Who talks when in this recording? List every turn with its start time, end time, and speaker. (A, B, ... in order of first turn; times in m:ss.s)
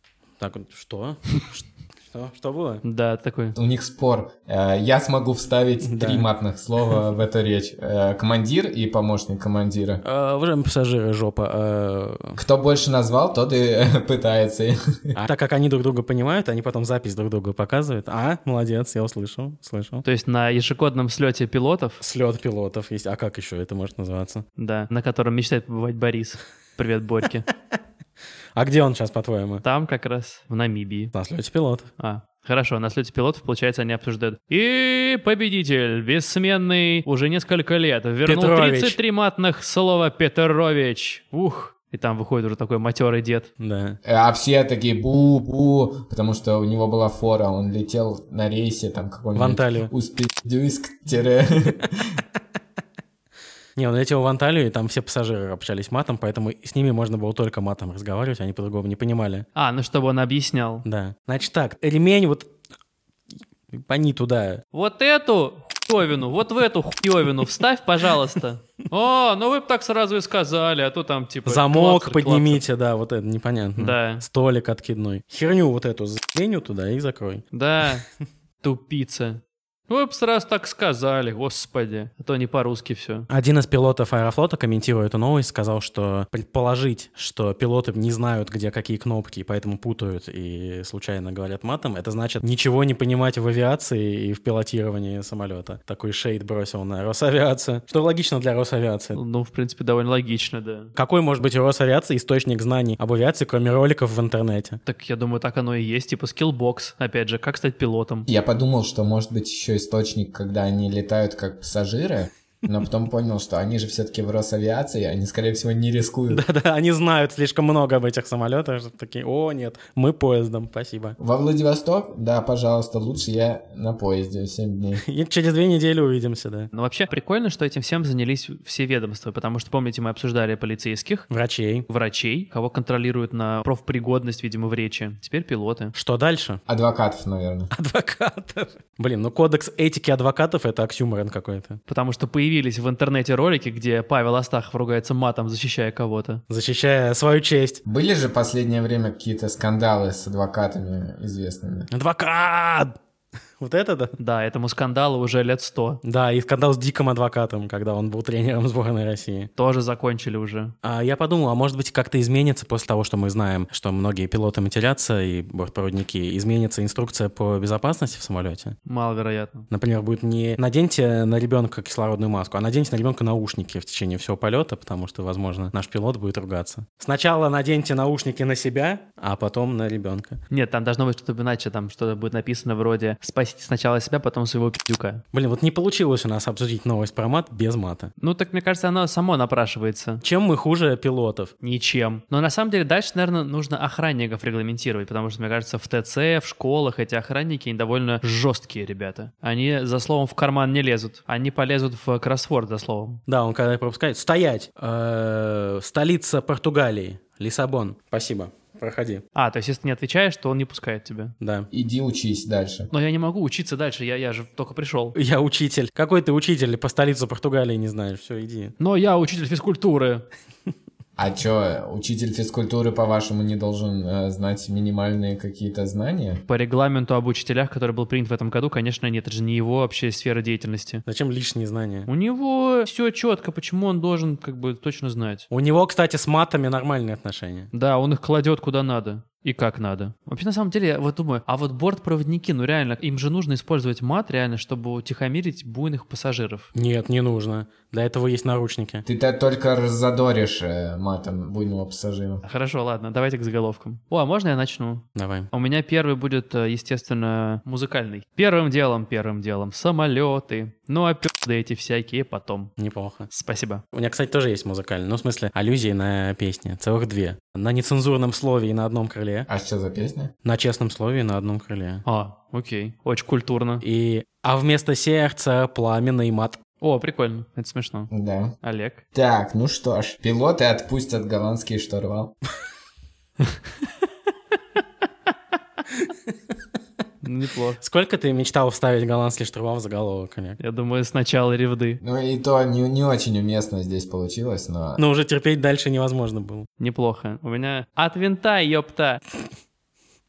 0:00.4-0:02.8 A
0:02.8-0:03.6 B
0:03.6-0:10.0 C
0:05.8-0:06.3 A
0:10.0-0:12.4 A
0:12.4-0:15.2 C
0:15.2-0:20.0 A
0:20.0-0:22.0 B
0:22.0-0:24.4 A
0:24.6-0:27.5 B
0:28.6-0:29.6 A
0:29.6-0:31.1 B
0:31.1-0:31.9 A
0:32.0-0:43.5 B
0:38.2-0:39.0 A
0:43.6-0:44.0 A
0:44.0-0:52.2 C
0:49.4-0:49.9 A
0:53.8-0:59.5 A
0:59.6-1:00.8 B
1:00.8-1:02.5 A
1:03.7-1:04.6 A
1:04.7-1:12.6 B
1:11.5-1:17.4 A
1:13.8-1:14.2 B
1:17.5-1:18.0 B
1:18.6-1:23.3 B
1:23.3-1:39.2 A
1:39.1-1:40.9 B
1:41.0-1:44.8 A
1:44.9-1:48.3 B
1:48.3-1:56.4 C
1:56.3-2:01.2 A
2:01.2-2:05.0 C
2:05.0-2:06.7 A
2:06.7-2:11.3 B
2:11.3-2:11.9 A
2:11.9-2:15.9 B
2:15.9-2:16.6 A
2:16.7-2:17.7 C
2:17.7-2:21.8 A
2:21.9-2:26.4 B
2:26.5-2:27.8 A
2:27.9-2:31.9 C
2:31.9-2:33.0 A
2:33.6-2:34.2 A
2:34.2-2:36.0 B
2:36.0-2:39.5 A
2:39.6-2:40.7 B
2:40.8-2:48.8 A
2:48.9-2:49.7 B
2:49.7-3:00.4 A
3:00.5-3:05.2 B
3:05.3-3:08.1 A
3:08.2-3:10.2 B
3:10.2-3:11.5 A
3:11.6-3:23.2 B
3:23.3-3:29.2 A
3:29.4-3:31.3 B
3:31.4-3:31.7 A
3:31.7-3:32.9 C
3:32.9-3:35.2 B
3:35.2-3:38.7 A
3:38.8-3:40.3 B
3:41.2-3:46.4 C
3:46.5-3:51.0 B
3:51.1-3:52.1 A
3:52.1-3:55.5 B
3:55.5-3:57.7 A
3:57.7-4:06.7 B
4:06.7-4:09.0 A
4:09.0-4:12.4 C
4:12.4-4:22.7 B
4:15.2-4:15.5 A
4:22.8-4:23.3 A
4:23.3-4:23.8 B
4:23.9-4:29.5 A
4:29.5-4:30.3 C
4:30.4-4:32.0 A
4:32.0-4:33.8 B
4:33.8-4:36.6 A
4:36.8-4:38.1 B
4:38.1-4:38.6 C
4:38.6-4:39.0 B
4:39.1-4:42.4 C
4:47.2-4:47.8 B
4:47.8-4:50.6 A
4:50.6-4:52.0 B
4:52.0-4:55.0 C
4:55.0-4:56.7 A
4:56.8-4:59.2 B